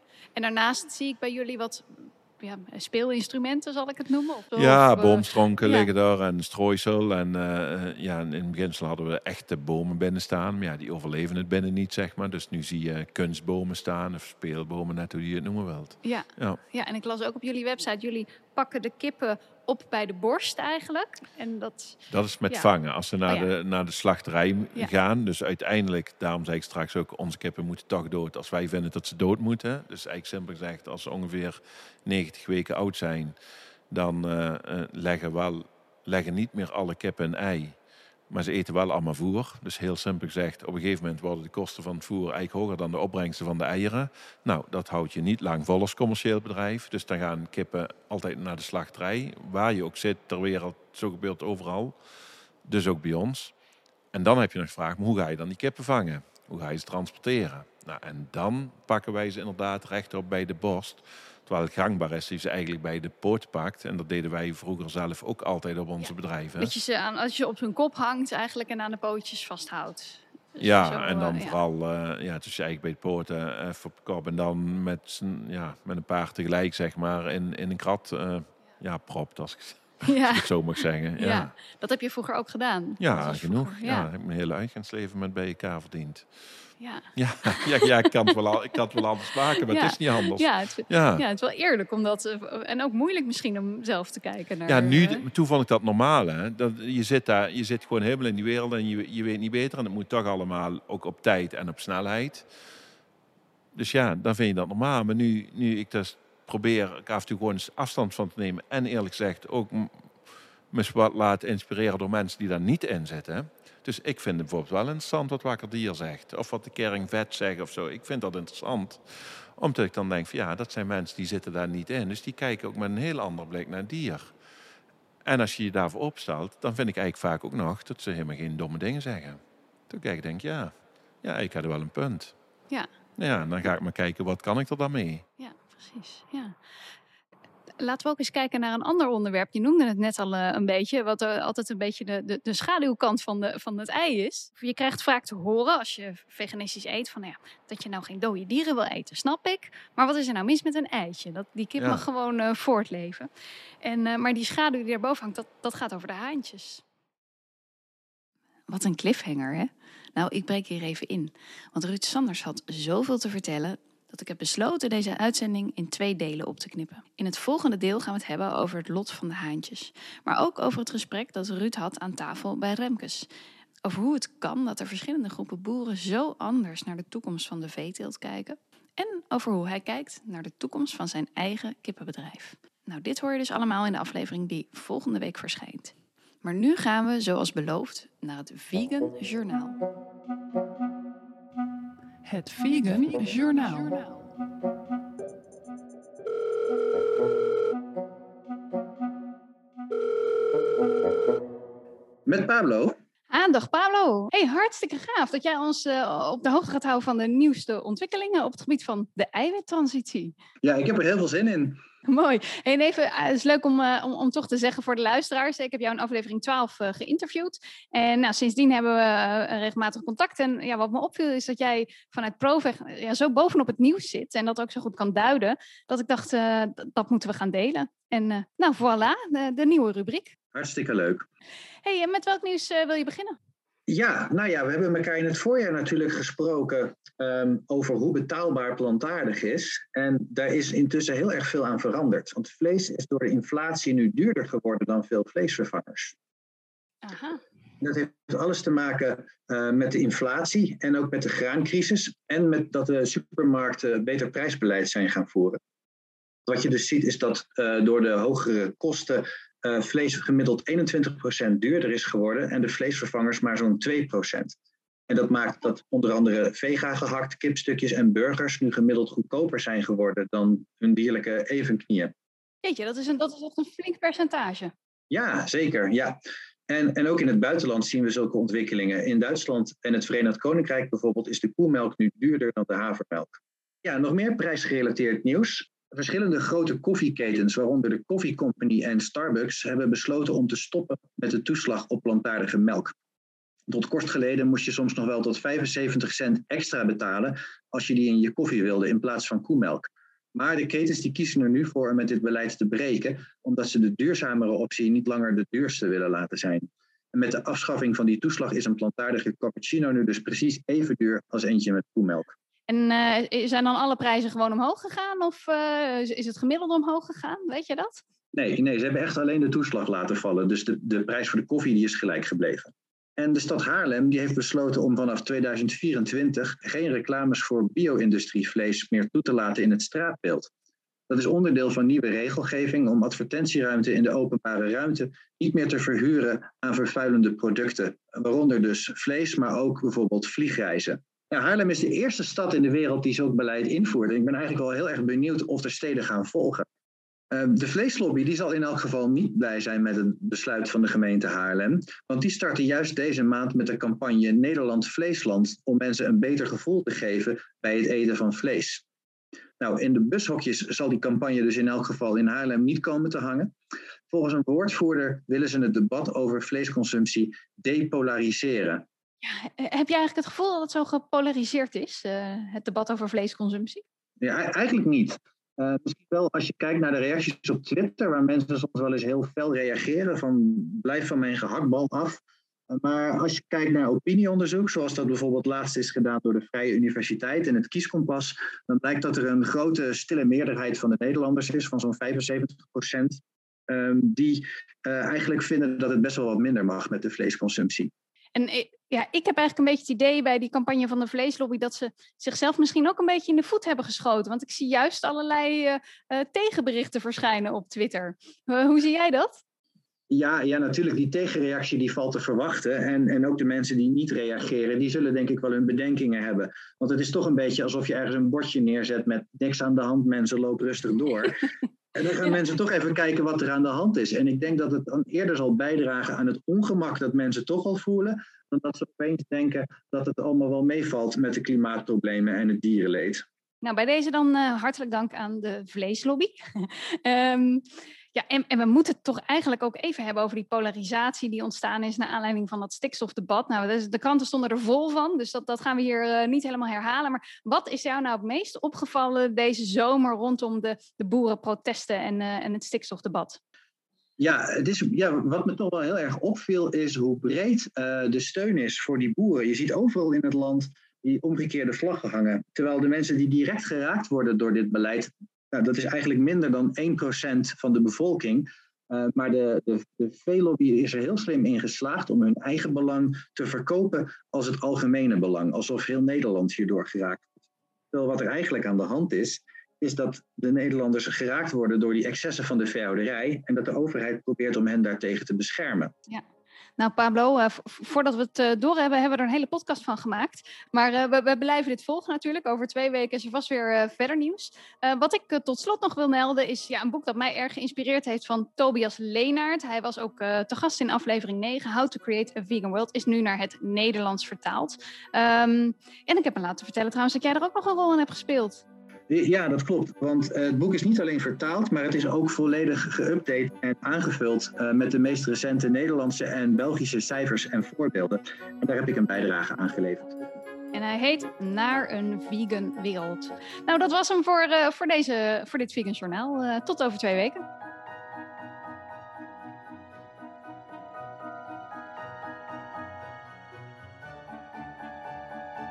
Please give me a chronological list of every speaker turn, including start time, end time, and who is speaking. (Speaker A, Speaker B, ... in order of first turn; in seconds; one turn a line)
Speaker A: 0.4-5.9
Speaker B: 4.5-16.6
Speaker A: 16.0-22.0
Speaker B: 22.1-33.4
Speaker B: 33.9-37.8
Speaker B: 38.3-52.0
Speaker B: 52.6-53.5
Speaker B: 54.1-66.7
Speaker A: 66.0-71.6
Speaker B: 70.6-81.5
Speaker A: 80.0-80.5
Speaker A: 81.2-84.1
Speaker B: 83.0-86.3
Speaker A: 86.8-88.3
Speaker B: 87.2-91.2
Speaker A: 89.6-95.2
Speaker B: 94.7-102.5
Speaker B: 103.8-110.1
Speaker B: 110.7-124.3
Speaker B: 125.2-132.3
Speaker B: 133.2-135.2
Speaker A: 135.4-136.6
Speaker A: 137.8-153.3
Speaker B: 151.8-152.0
Speaker A: 153.8-156.8
Speaker A: 158.7-173.3
Speaker A: 173.8-189.8
Speaker A: 192.2-194.3
Speaker C: 202.3-203.0
Speaker A: 203.3-210.3
Speaker C: 210.6-211.8
Speaker A: 212.1-230.3
Speaker C: 230.6-231.2
Speaker A: 231.8-233.4
Speaker C: 233.9-246.1
Speaker A: 247.0-247.4
Speaker C: 247.8-255.6
Speaker C: 256.5-264.6
Speaker C: 265.1-272.1
Speaker A: 272.6-274.7
Speaker C: 275.1-276.2
Speaker C: 276.7-283.3
Speaker C: 283.8-292.9
Speaker C: 293.7-312.3
Speaker A: 312.7-318.0
Speaker C: 318.3-330.5
Speaker C: 331.1-346.7
Speaker C: 347.3-358.8
Speaker C: 359.6-363.5
Speaker C: 364.1-368.9
Speaker A: 369.2-373.8
Speaker C: 374.2-397.9
Speaker A: 398.4-409.4
Speaker C: 410.1-433.2
Speaker A: 433.6-437.6
Speaker A: 438.1-453.4
Speaker C: 454.2-477.3
Speaker C: 477.9-485.9
Speaker A: 486.8-508.6
Speaker C: 509.1-520.1
Speaker A: 520.7-527.4